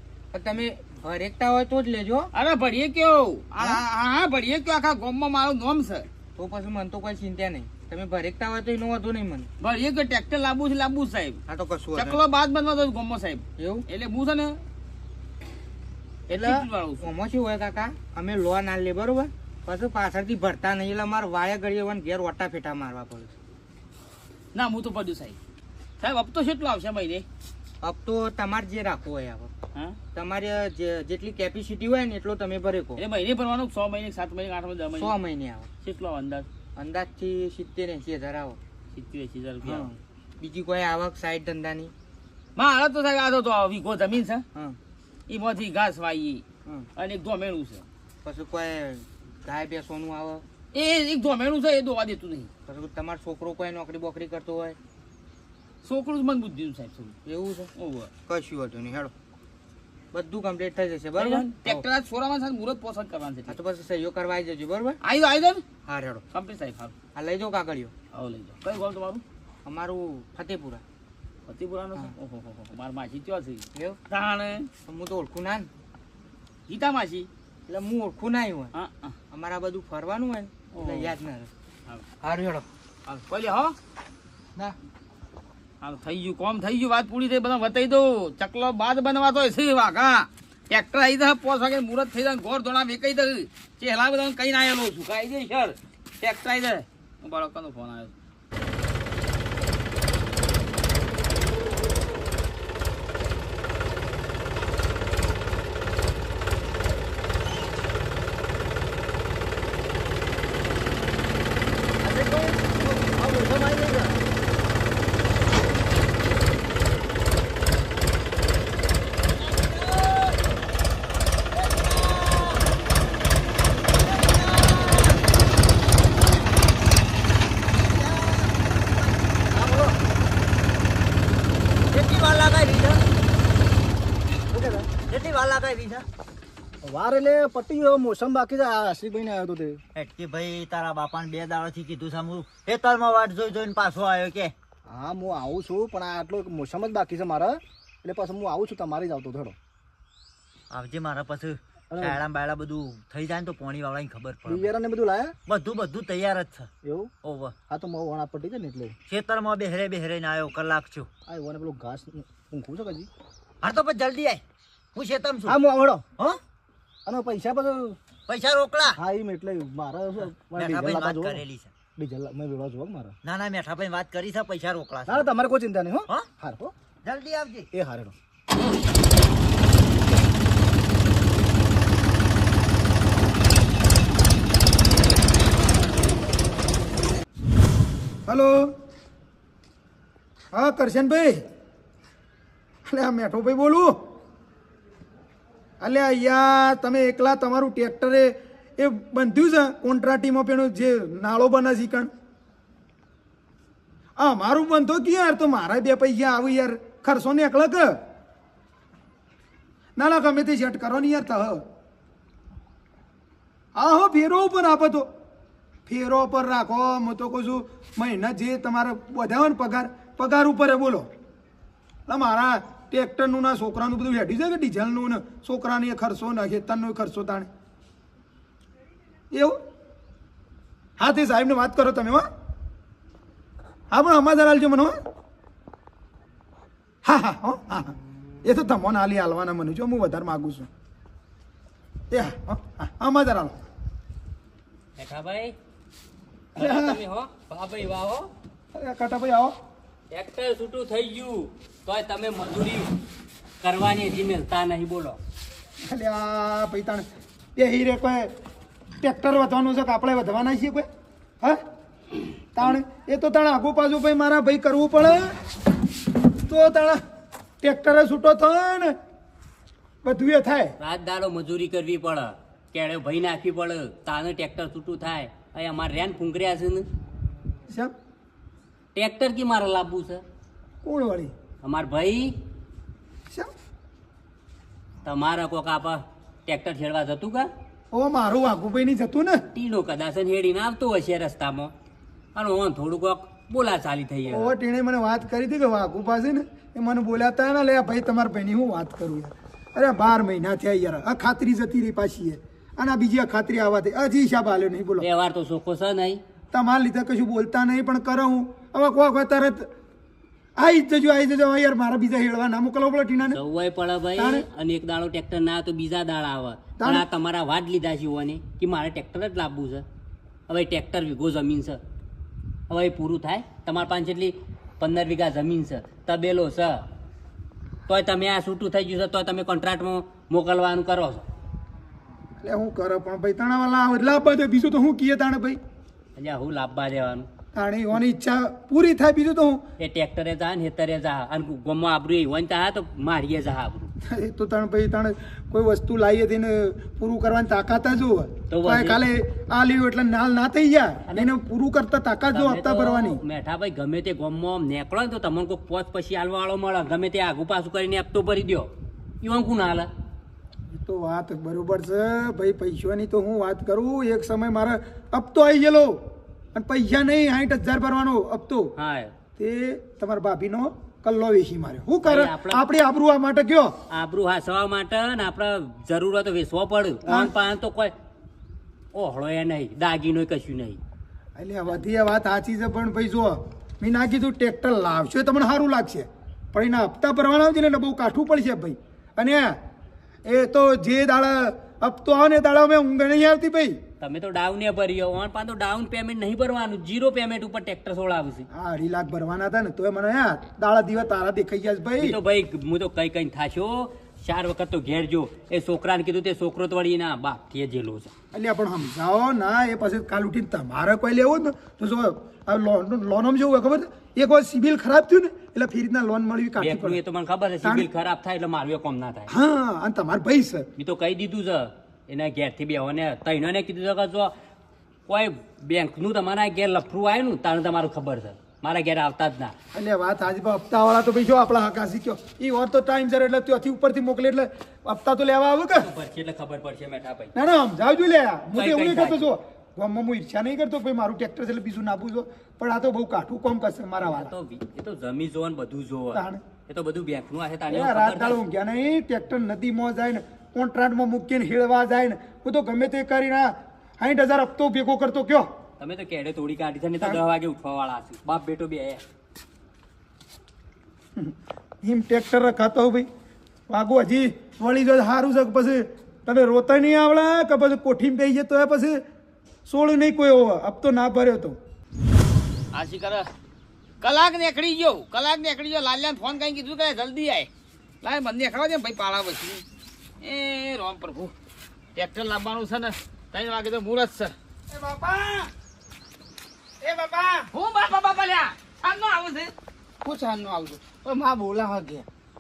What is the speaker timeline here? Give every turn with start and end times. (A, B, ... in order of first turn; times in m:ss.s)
0:00.3-0:02.3 A
0:02.3-0:06.1 B
0:06.4-0:09.5 A
0:09.6-0:11.4 B
0:11.5-0:12.2 A
0:12.0-0:14.6 B
0:13.6-0:13.8 A
0:16.3-0:17.0 B
0:16.3-0:23.3 A
0:24.5-0:25.4 B
0:26.0-0:27.2 B
0:27.8-0:29.5 A
0:30.1-0:33.0 A
0:33.0-0:35.1 B
0:35.0-0:35.7 A
0:35.8-0:36.4 B
0:36.8-0:38.6 A
0:38.9-0:39.9 B
0:39.6-0:41.9 A
0:42.6-0:44.4 B
0:45.3-0:46.4 B
0:47.0-0:47.8 B
0:48.2-0:50.4 A
0:50.7-0:52.5 B
0:52.7-0:54.8 A
0:55.8-0:57.1 B
0:57.2-0:57.7 A
0:57.8-0:58.1 B
0:58.3-0:59.1 A
1:00.1-1:01.8 A
1:01.2-1:03.6 B
1:03.5-1:05.0 A
1:05.0-1:05.6 B
1:05.8-1:06.2 A
1:06.3-1:06.9 B
1:07.1-1:07.9 A
1:08.1-1:09.2 B
1:09.6-1:10.8 A
1:11.5-1:14.7 B
1:14.9-1:15.7 A
1:16.7-1:17.3 B
1:17.7-1:18.7 A
1:18.7-1:19.2 B
1:19.3-1:21.5 A
1:20.7-1:21.1 B
1:22.2-1:22.6 A
1:23.1-1:23.7 B
1:25.8-1:38.1 B
1:52.0-1:54.2 C
1:59.2-2:02.8 C
2:03.8-2:05.3 C
2:06.0-2:06.3 C
2:07.7-2:10.0 C
2:11.9-2:13.0 C
2:14.5-2:14.9 D
2:15.0-2:16.0 C
2:16.8-2:19.8 D
2:19.9-2:24.5 C
2:24.9-2:29.6 D
2:30.7-2:34.7 C
2:31.9-2:32.2 D
2:34.5-2:35.3 D
2:35.4-2:36.7 C
2:36.8-2:37.1 D
2:37.2-2:37.5 C
2:37.7-2:39.0 D
2:39.1-2:41.1 C
2:41.3-2:43.1 D
2:43.6-2:44.4 C
2:44.9-2:45.6 C
2:45.5-2:46.0 D
2:47.0-2:48.0 D
2:48.3-2:49.0 C
2:49.0-2:51.4 D
2:50.5-2:51.7 C
2:52.0-2:53.1 D
2:53.2-2:55.3 C
2:55.1-2:56.7 D
2:57.0-2:57.7 C
2:57.7-2:58.1 D
3:08.3-3:08.7 E
3:10.5-3:11.4 E
3:12.9-3:14.0 E
3:15.8-3:22.1 E
3:24.2-3:28.0 E
3:30.0-3:31.6 E
3:33.8-3:35.1 E
3:35.9-3:41.1 E
3:42.1-3:47.5 E
3:49.3-3:49.6 E
3:51.0-3:52.3 E
3:53.9-3:54.9 E
3:57.0-4:00.7 E
4:02.1-4:03.6 E
4:05.0-4:05.5 F
4:06.5-4:08.3 F
4:06.6-4:07.0 E
4:08.7-4:09.5 E
4:10.1-4:12.9 F
4:13.6-4:15.2 F
4:15.9-4:17.0 E
4:17.6-4:18.3 E
4:19.0-4:20.9 E
4:22.5-4:25.3 E
4:26.5-4:27.0 E
4:27.6-4:29.0 E
4:30.0-4:30.7 E
4:30.8-4:36.8 F
4:38.9-4:40.2 F
4:40.8-4:41.3 E
4:41.6-4:42.3 F
4:45.0-4:47.5 F
4:47.9-4:49.4 E
4:49.5-4:51.7 F
4:52.3-4:54.5 F
4:54.3-5:05.1 E
5:05.0-5:06.2 F
5:06.5-5:09.7 E
5:10.6-5:13.4 E
5:13.3-5:19.8 F
5:14.2-5:14.4 E
5:16.8-5:17.1 E
5:20.5-5:21.8 F
5:22.7-5:26.8 F
5:27.9-5:31.2 F
5:32.4-5:35.6 E
5:36.2-5:37.2 F
5:37.5-5:39.6 E
5:39.8-5:43.9 F
5:44.0-5:53.2 E
5:48.5-5:49.0 F
5:52.3-5:58.7 F
5:59.2-5:59.9 F
6:00.7-6:08.7 E
6:08.8-6:09.1 F
6:09.4-6:13.8 E
6:12.0-6:12.7 F
6:13.9-6:17.9 F
6:18.9-6:20.8 F
6:21.4-6:29.6 E
6:30.2-6:33.8 E
6:34.0-6:38.4 F
6:38.5-6:42.2 E
6:42.0-6:48.1 F
6:48.3-6:57.0 E
6:56.6-6:59.3 F
6:57.6-6:57.9 E
6:59.3-7:00.7 E
7:00.8-7:04.3 F
7:05.1-7:09.5 F
7:09.7-7:15.9 E
7:15.8-7:17.3 F
7:17.3-7:24.3 E
7:18.5-7:19.2 F
7:24.0-7:28.4 F
7:26.1-7:26.4 E
7:27.7-7:35.5 E
7:35.8-7:39.0 F
7:41.2-7:43.1 E
7:43.7-7:49.0 E
7:49.7-7:51.6 E
7:52.7-7:53.3 B
7:54.0-7:57.5 B
7:58.0-7:59.6 B
8:00.2-8:01.3 B
8:02.0-8:04.3 B
8:04.7-8:05.5 G
8:06.8-8:07.5 G
8:07.5-8:09.5 B
8:10.0-8:12.0 G